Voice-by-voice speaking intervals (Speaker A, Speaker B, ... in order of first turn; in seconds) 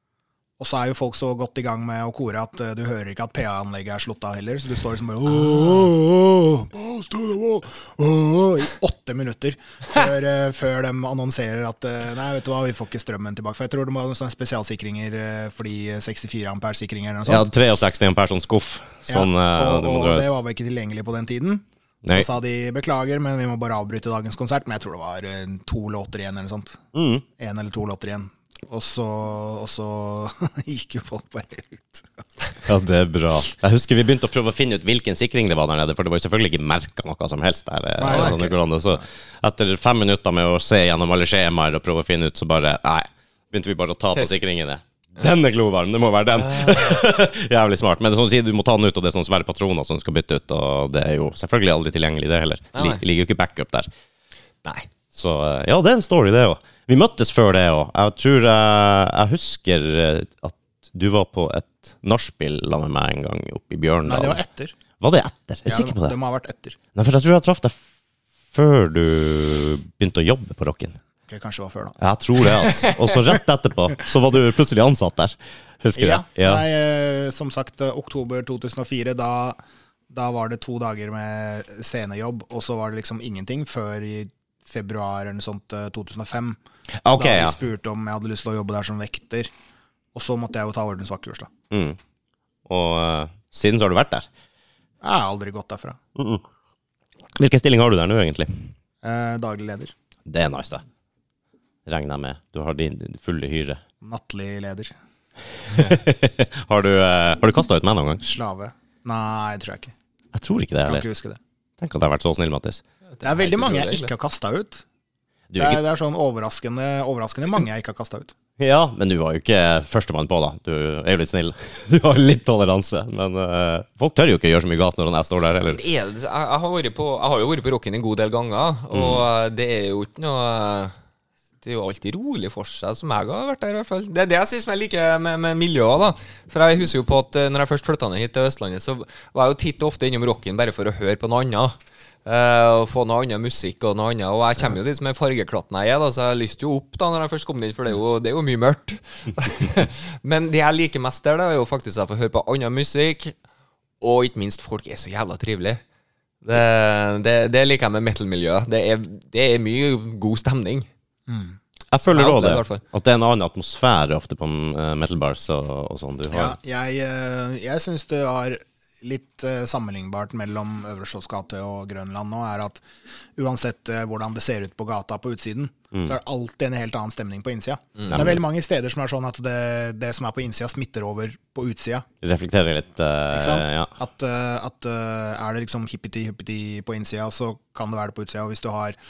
Speaker A: 0.6-17.5, 19.1-26.8, 27.4-32.5, 38.0-38.6, 64.1-64.8, 65.7-66.8, 71.3-72.0, 76.0-79.6, 80.1-86.6, 87.2-89.5, 90.1-91.5, 95.0-96.0, 99.0-99.9, 104.0-104.9, 108.2-109.9, 110.8-111.4, 113.2-114.8, 115.6-118.3, 161.3-161.6, 166.3-172.8, 173.4-182.1, 183.3-189.0
Speaker B: 17.3-20.3, 26.9-27.2, 32.6-53.9, 55.1-64.4, 65.0-66.2, 67.0-67.8, 68.5-71.0, 72.0-76.7, 87.0-87.6, 91.7-92.0, 92.7-94.3, 96.2-96.4, 97.4-98.5, 100.3-100.8, 101.9-103.8, 105.7-108.2, 110.3-111.0, 111.8-112.8, 115.5-115.8, 118.6-125.8, 128.9-129.2, 161.9-166.6, 178.1-178.4, 182.2-183.9
Speaker C: 38.1-38.5, 46.4-47.0, 52.8-53.0, 113.2-114.1, 125.7-130.9, 131.6-141.8, 142.3-153.3, 154.0-155.8, 156.4-160.9, 162.0-162.8